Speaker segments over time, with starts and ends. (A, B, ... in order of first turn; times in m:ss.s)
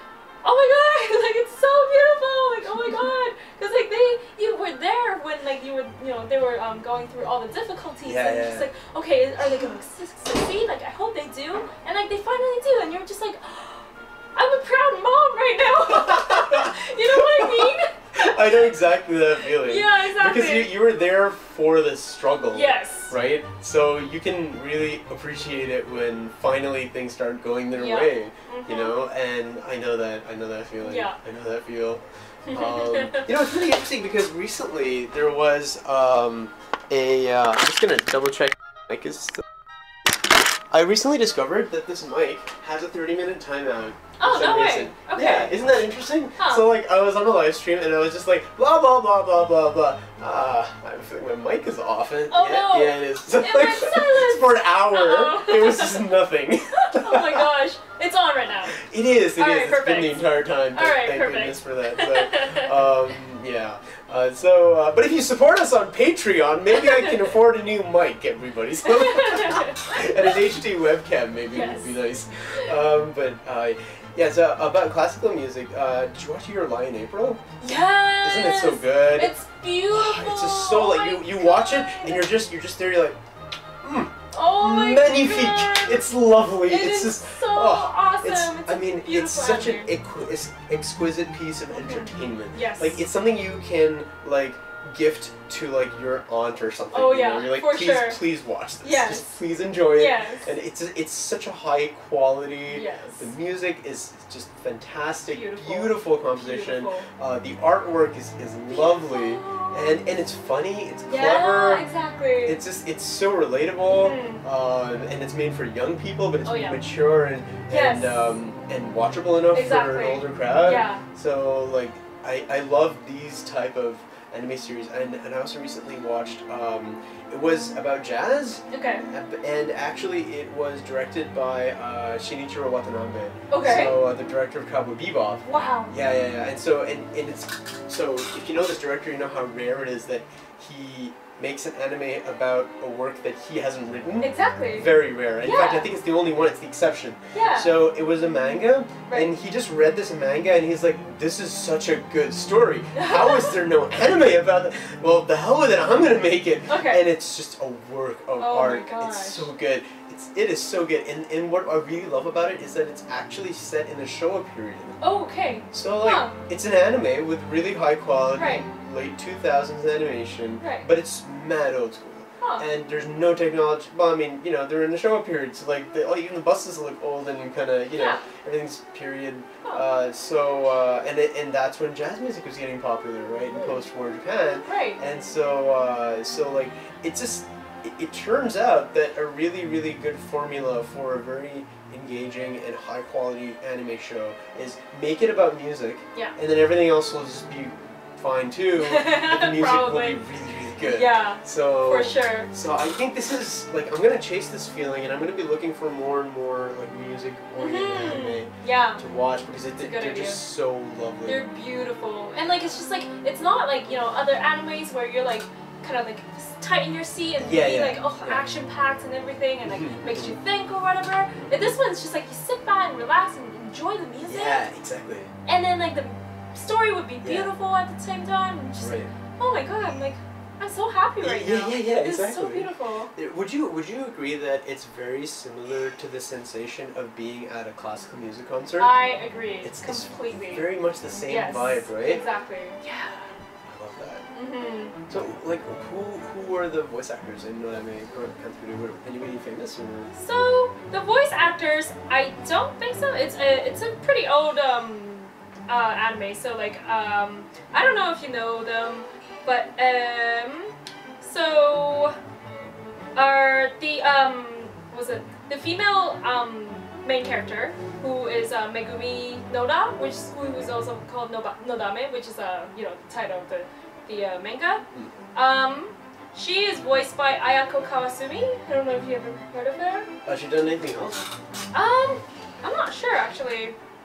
0:00.4-0:18.5 A
0:08.0-0:08.7 B
0:16.0-0:39.4 B
0:19.5-0:20.7 A
0:22.5-0:23.1 A
0:27.7-0:29.0 A
0:30.8-0:31.2 A
0:32.5-0:33.3 A
0:40.7-0:57.5 B
0:44.2-0:45.9 A
0:46.4-0:46.7 A
0:52.3-0:56.0 A
0:56.7-0:58.8 A
0:58.7-1:17.5 B
0:59.4-1:02.8 A
1:06.8-1:07.1 A
1:08.9-1:10.4 A
1:11.5-1:12.0 A
1:17.6-1:22.3 A
1:18.2-1:19.4 B
1:19.9-1:23.2 B
1:23.8-1:51.9 B
1:24.3-1:26.1 A
1:26.6-1:29.9 A
1:31.7-1:33.0 A
1:36.9-1:38.2 A
1:38.8-1:39.2 A
1:39.9-1:40.5 A
1:42.7-1:43.3 A
1:45.3-1:47.1 A
1:48.7-1:50.0 A
1:51.1-1:52.6 A
1:52.4-2:45.0 B
1:53.9-1:54.4 A
1:56.4-1:56.8 A
1:57.7-1:58.4 A
1:59.5-2:01.0 A
2:08.7-2:09.1 A
2:13.5-2:14.0 A
2:15.4-2:15.9 A
2:24.2-2:24.9 A
2:25.4-2:25.9 A
2:27.3-2:27.8 A
2:32.9-2:33.6 A
2:36.7-2:37.0 A
2:38.4-2:39.5 A
2:45.0-2:46.4 A
2:45.7-3:31.4 B
2:48.4-2:48.7 A
2:50.6-2:50.9 A
2:52.4-2:52.6 A
2:57.9-2:58.2 A
3:04.6-3:05.0 A
3:18.8-3:20.3 A
3:20.8-3:22.5 A
3:27.6-3:29.0 A
3:29.8-3:30.4 A
3:31.3-3:44.7 A
3:37.4-3:38.5 B
3:39.6-3:40.4 B
3:41.4-3:41.7 B
3:44.2-3:45.3 B
3:45.5-3:53.1 A
3:47.2-3:47.5 B
3:48.8-3:49.1 B
3:51.2-3:59.0 B
3:58.8-4:00.7 A
3:59.6-4:02.2 B
4:01.2-4:02.8 A
4:02.8-4:04.2 B
4:04.3-4:05.0 A
4:05.1-4:10.2 B
4:10.1-4:22.2 A
4:23.2-4:34.8 A
4:35.4-4:40.1 A
4:40.2-4:41.3 B
4:41.7-4:43.8 A